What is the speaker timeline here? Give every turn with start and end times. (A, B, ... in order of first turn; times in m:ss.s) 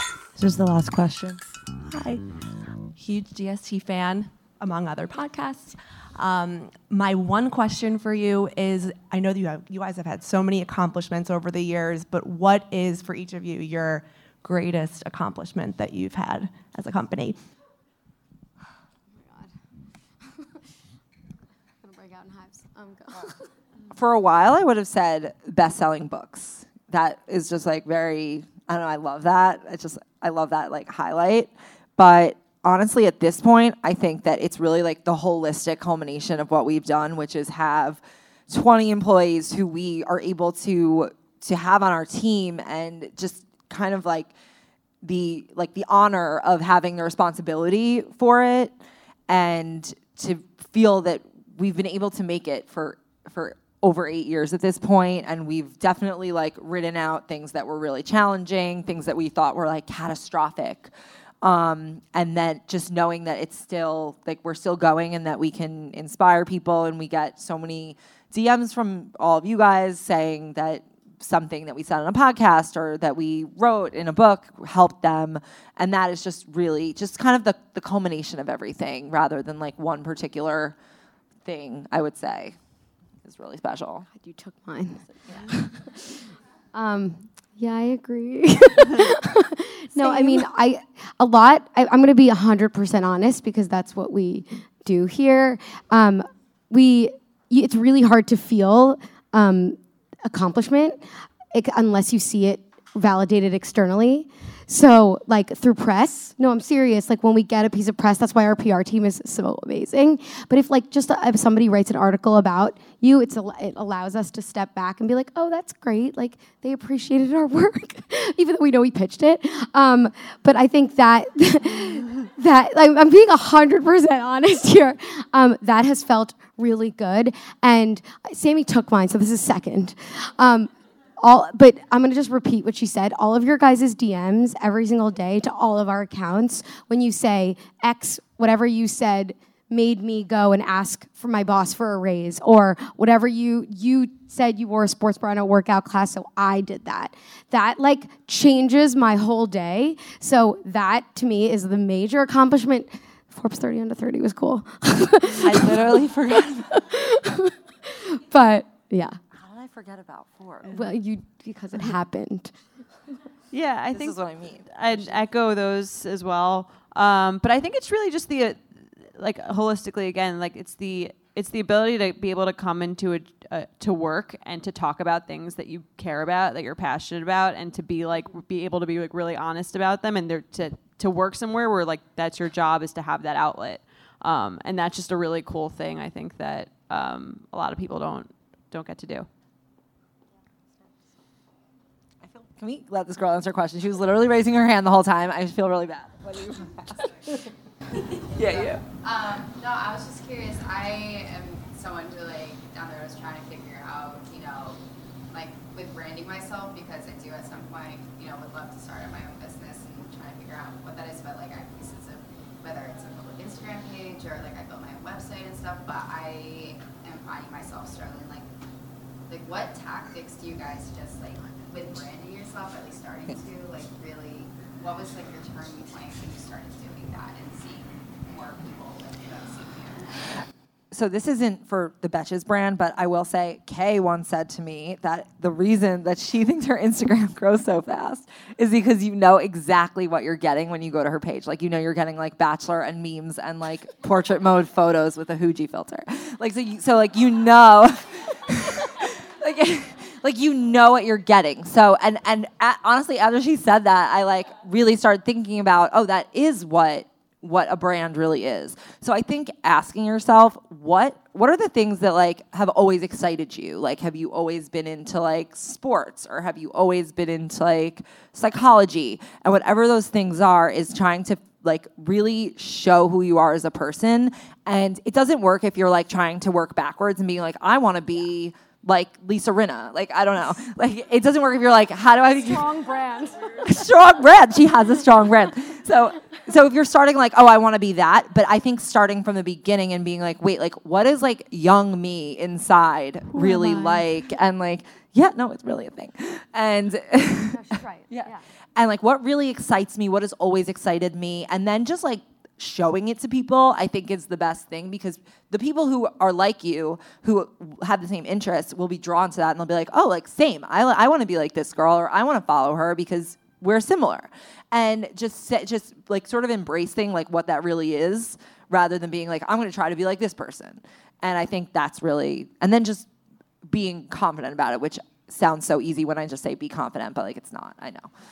0:00.4-0:02.3 A
0:03.0-0:17.4 A
0:19.1-0:19.5 B
0:21.8-0:23.5 B
0:23.9-0:44.3 C
0:45.0-0:48.7 C
0:49.3-1:00.9 C
1:01.4-1:20.8 C
1:21.4-1:22.6 C
1:23.2-1:24.1 C
1:24.1-2:39.2 B
1:25.1-1:25.6 C
1:30.0-1:30.5 C
2:35.4-2:36.7 C
2:39.3-2:40.9 C
2:40.7-2:42.6 B
2:43.5-2:44.2 D
2:43.9-2:45.2 C
2:44.7-3:09.3 D
3:12.2-3:17.5 C
3:18.2-3:24.8 E
3:18.3-3:18.8 C
3:25.3-3:38.5 E
3:39.3-3:50.3 E
3:50.9-4:42.8 C
4:42.4-4:43.6 B
4:43.5-5:23.1 C
4:57.5-4:58.4 B
5:23.7-5:28.1 C